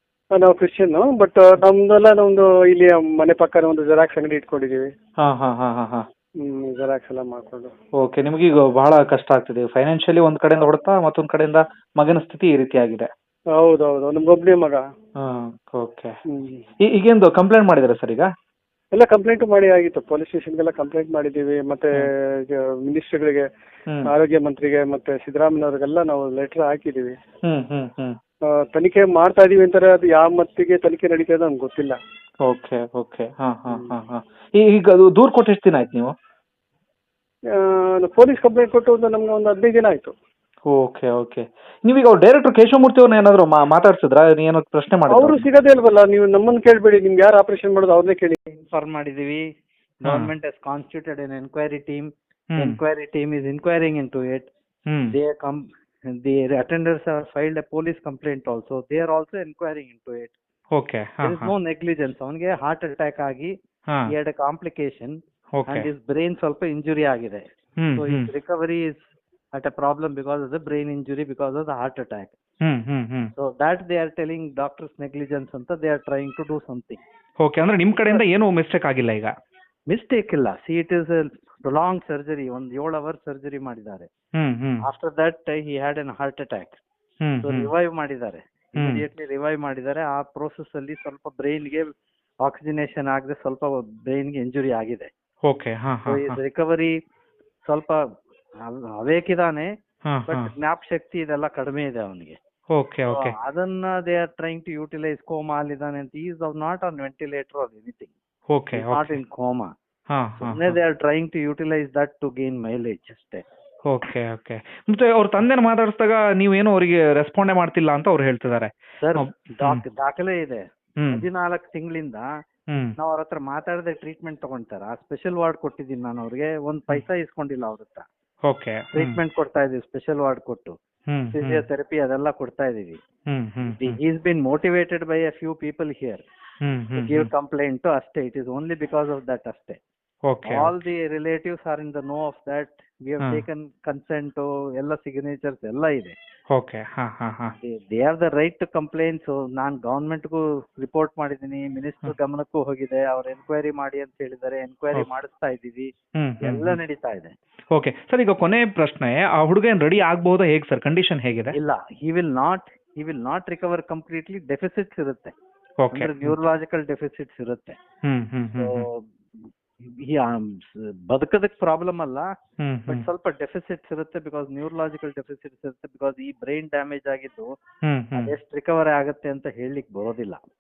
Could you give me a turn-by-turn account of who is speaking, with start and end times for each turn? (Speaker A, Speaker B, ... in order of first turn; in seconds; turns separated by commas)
Speaker A: 0.3-4.9, Speaker B: 5.2-6.0, Speaker A: 6.4-7.7, Speaker B: 8.0-13.1, Speaker A: 13.6-14.8, Speaker B: 15.2-16.1, Speaker A: 16.3-16.6, Speaker B: 16.8-18.3, Speaker A: 18.9-23.5, Speaker A: 24.1-27.1, Speaker B: 27.5-28.1, Speaker A: 28.5-32.0, Speaker B: 32.4-36.1, Speaker A: 37.5-40.1, Speaker B: 40.7-45.4, Speaker A: 45.1-48.4, Speaker C: 48.5-49.5, Speaker C: 50.0-54.5, Speaker B: 50.0-50.3, Speaker B: 52.5-52.8, Speaker B: 54.9-55.2, Speaker C: 55.1-55.7, Speaker C: 56.2-60.4, Speaker B: 60.7-61.5, Speaker C: 61.2-63.5, Speaker C: 64.1-65.2, Speaker B: 65.6-65.9, Speaker C: 65.7-67.4, Speaker B: 67.8-68.3, Speaker C: 68.0-72.4, Speaker B: 72.6-73.3, Speaker C: 73.4-77.0, Speaker B: 77.4-79.3, Speaker C: 79.9-84.1, Speaker B: 84.4-84.8, Speaker C: 84.8-86.8, Speaker B: 87.2-87.7, Speaker C: 87.4-91.9, Speaker B: 88.8-89.0, Speaker C: 92.4-95.1, Speaker B: 95.5-96.4, Speaker C: 96.1-96.9, Speaker C: 97.6-98.0, Speaker C: 98.6-99.7, Speaker B: 100.1-100.5, Speaker C: 100.3-102.4, Speaker B: 102.7-103.3, Speaker C: 103.1-108.1, Speaker B: 108.5-109.2, Speaker C: 108.7-109.7, Speaker B: 110.1-110.8, Speaker C: 110.4-113.4, Speaker B: 113.9-119.8, Speaker C: 119.0-122.2, Speaker C: 123.0-128.1, Speaker B: 128.5-129.2, Speaker C: 128.9-130.8, Speaker B: 131.1-131.6, Speaker C: 131.3-133.0, Speaker B: 133.3-134.0, Speaker C: 133.6-136.3, Speaker B: 136.6-137.3, Speaker C: 137.0-139.8, Speaker B: 140.3-140.8, Speaker C: 140.5-146.2, Speaker B: 146.5-147.6, Speaker C: 147.6-157.3, Speaker B: 156.2-156.8, Speaker B: 157.7-161.6, Speaker C: 161.5-165.3, Speaker B: 165.8-166.4, Speaker C: 165.9-167.8, Speaker B: 168.1-168.8, Speaker C: 168.6-169.1, Speaker C: 169.8-172.3, Speaker B: 172.6-173.1, Speaker C: 172.9-177.5, Speaker B: 177.9-178.3, Speaker C: 178.2-180.4